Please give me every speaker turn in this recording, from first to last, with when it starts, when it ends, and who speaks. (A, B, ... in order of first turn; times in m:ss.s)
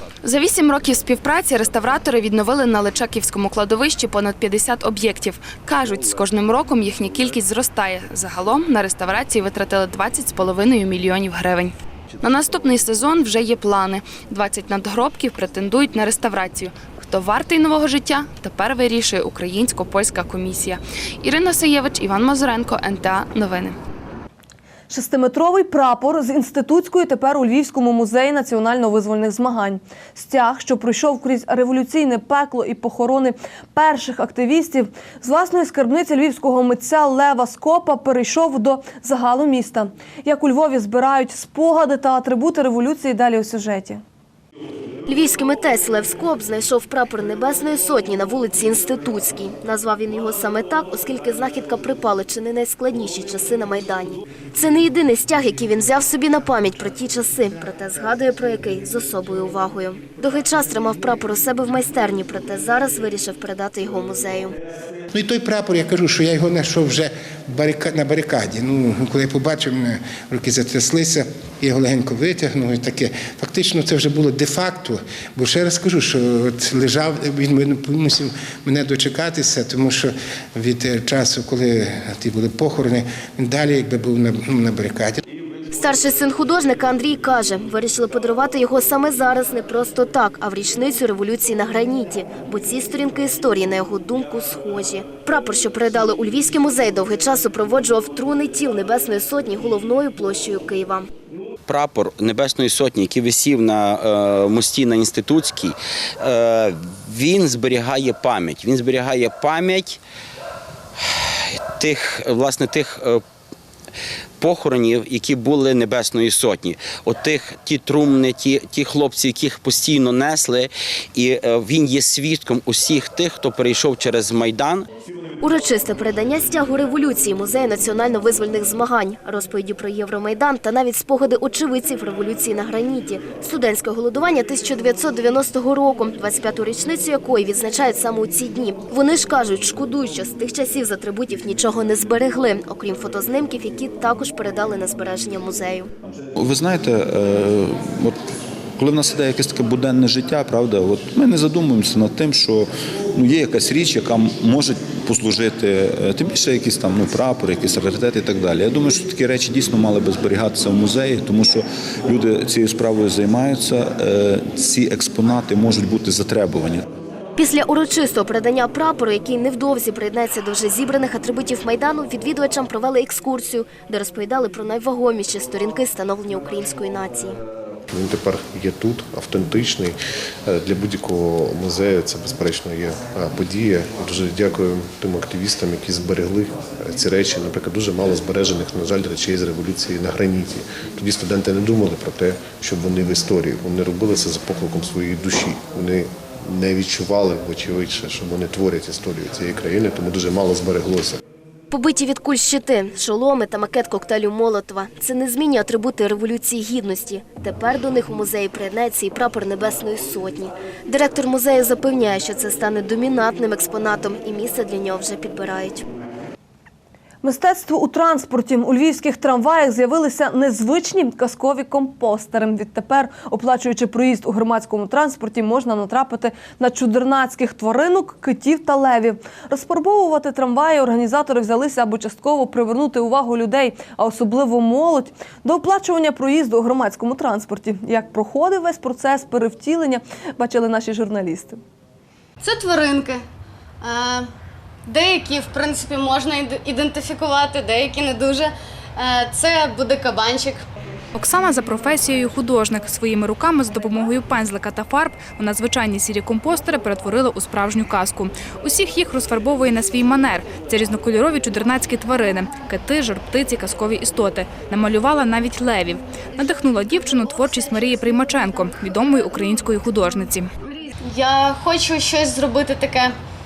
0:00.2-0:23.8 A
0:24.9-0:44.0 B
0:45.1-1:04.5 C
1:05.1-1:25.2 D
1:25.7-1:41.1 C
1:41.7-1:50.0 E
1:51.3-1:53.2 E
1:54.4-2:04.9 E
2:05.4-2:25.9 C
2:26.4-2:28.2 F
2:28.8-2:46.8 F
2:47.4-2:57.4 C
2:57.9-3:21.2 G
3:21.7-3:35.8 C
3:37.2-4:01.6 B
4:02.4-4:03.2 H
4:03.8-4:04.3 H
4:04.9-4:10.6 H
4:11.2-4:30.5 I
4:31.0-4:33.2 H